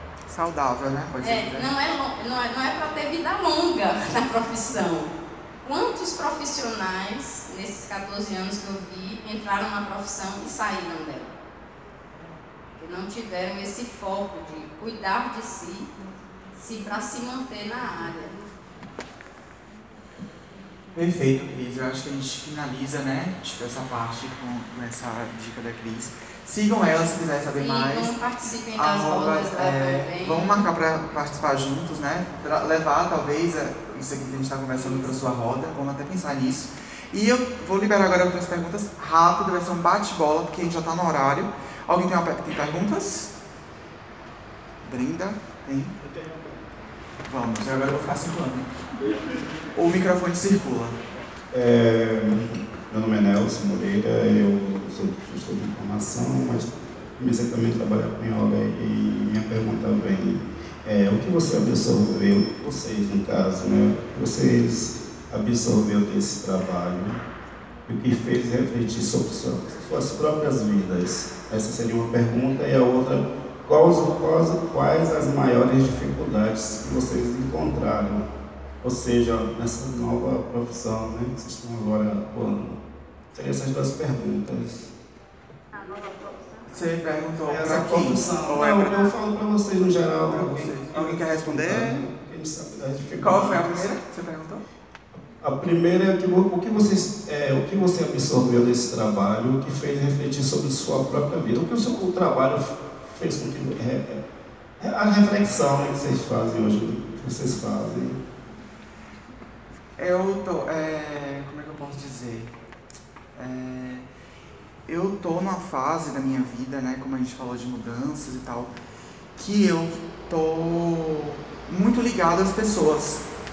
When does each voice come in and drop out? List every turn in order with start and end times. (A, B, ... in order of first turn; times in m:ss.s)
0:00.2-0:01.7 A
0:01.2-0:11.3 B
0:12.8-0:15.9 B
0:16.5-0:18.3 B
0:20.9-0:28.2 A
0:27.5-0:30.6 B
0:28.7-0:43.3 A
0:34.7-0:35.1 B
0:44.8-0:45.9 A
0:47.2-0:48.7 A
0:49.7-0:51.0 A
0:51.5-1:07.2 C
1:07.9-1:18.2 C
1:18.8-1:22.8 C
1:23.3-1:24.9 C
1:26.7-1:29.1 A
1:27.5-1:33.9 C
1:30.2-1:32.0 A
1:33.2-1:34.6 A
1:35.4-1:44.2 C
1:44.8-1:48.2 C
1:50.0-1:52.5 A
1:53.3-1:54.1 A
1:54.9-1:58.7 A
1:59.4-2:03.2 A